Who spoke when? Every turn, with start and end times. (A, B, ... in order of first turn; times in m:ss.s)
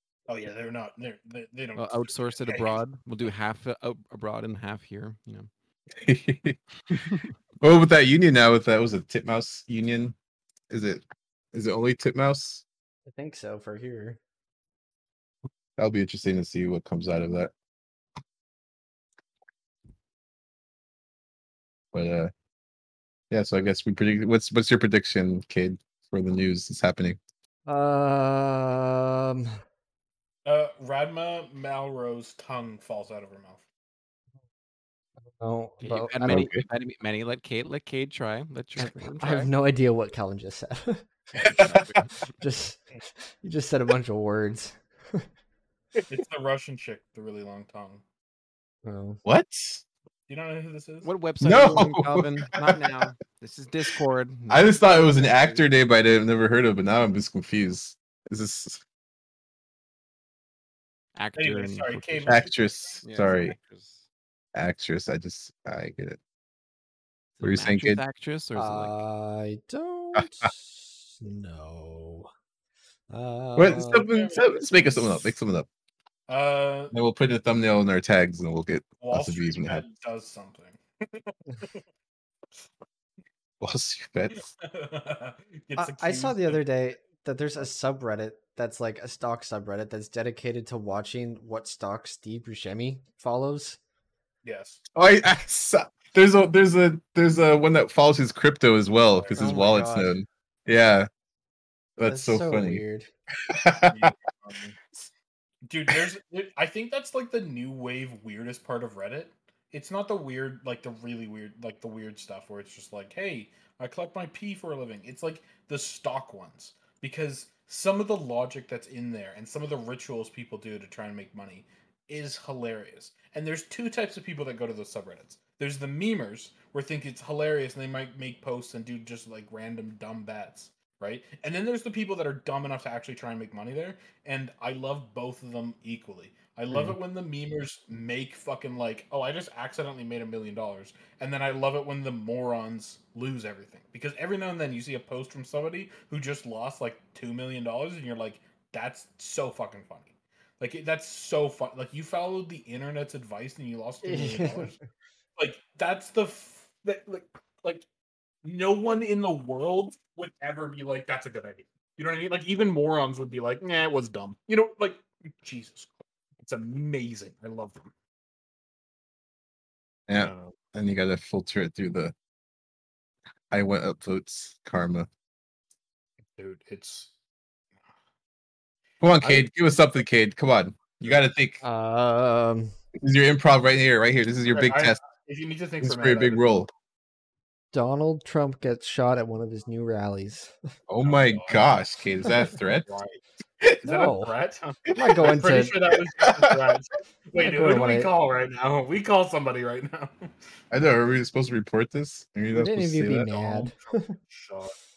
0:00.3-0:02.8 A
0:01.8-0:05.5 B
0:06.0-0:10.1 C
0:06.9-0:07.3 B
0:10.7-0:11.0 C
0:11.5-0:12.6 C
0:13.1-0:14.2 D
0:15.8-0:17.5 C
0:21.9-0:22.3 C
0:23.3-0:27.2 C
0:27.7-0:29.5 D
0:30.4-0:33.6 A
0:35.4-0:36.5 D
0:35.8-0:39.5 B
0:36.2-0:36.7 C
0:38.8-0:41.0 D
0:41.4-0:41.9 C
0:41.4-0:42.3 B
0:42.4-0:45.2 D
0:46.1-0:48.0 A
0:48.8-0:49.2 D
0:49.2-0:49.8 C
0:50.3-0:51.1 A
0:51.0-0:55.6 B
0:51.4-0:53.0 C
0:54.5-0:58.8 C
1:01.2-1:02.4 B
1:01.4-1:03.0 A
1:02.3-1:03.5 C
1:03.0-1:04.0 B
1:04.5-1:06.2 C
1:07.4-1:09.0 B
1:07.4-1:08.0 C
1:08.5-1:12.3 D
1:10.2-1:10.5 C
1:13.1-1:14.1 D
1:13.6-1:15.7 C
1:14.1-1:15.3 A
1:16.3-1:16.9 A
1:16.9-1:19.8 C
1:19.0-1:21.8 A
1:23.6-1:24.5 C
1:24.6-1:26.6 A
1:25.7-1:33.8 D
1:34.4-1:34.8 A
1:35.0-1:41.1 C
1:39.1-1:39.9 A
1:39.4-1:40.2 D
1:42.0-1:42.8 C
1:42.0-1:43.1 D
1:43.4-1:44.0 C
1:43.9-1:44.8 A
1:45.6-2:34.8 A
2:34.0-2:34.7 D
2:35.4-2:37.8 A
2:38.4-2:45.9 A
2:46.4-2:47.9 A
2:50.1-2:52.1 C
2:50.2-2:50.6 A
2:53.5-2:55.1 C
2:56.4-2:57.1 A
2:59.0-3:01.6 C
3:01.6-3:02.7 D
3:03.0-3:05.0 C
3:04.5-3:06.4 A
3:05.8-3:06.7 C
3:07.7-3:10.5 D
3:10.9-3:12.9 C
3:11.0-3:11.8 A
3:12.6-3:13.2 A
3:13.6-3:13.9 C
3:13.8-3:14.3 D
3:13.8-3:20.2 A
3:14.9-3:16.7 C
3:14.9-3:15.8 D
3:17.4-3:18.1 D
3:20.7-3:23.7 C
3:22.5-3:24.1 D
3:24.2-3:24.7 A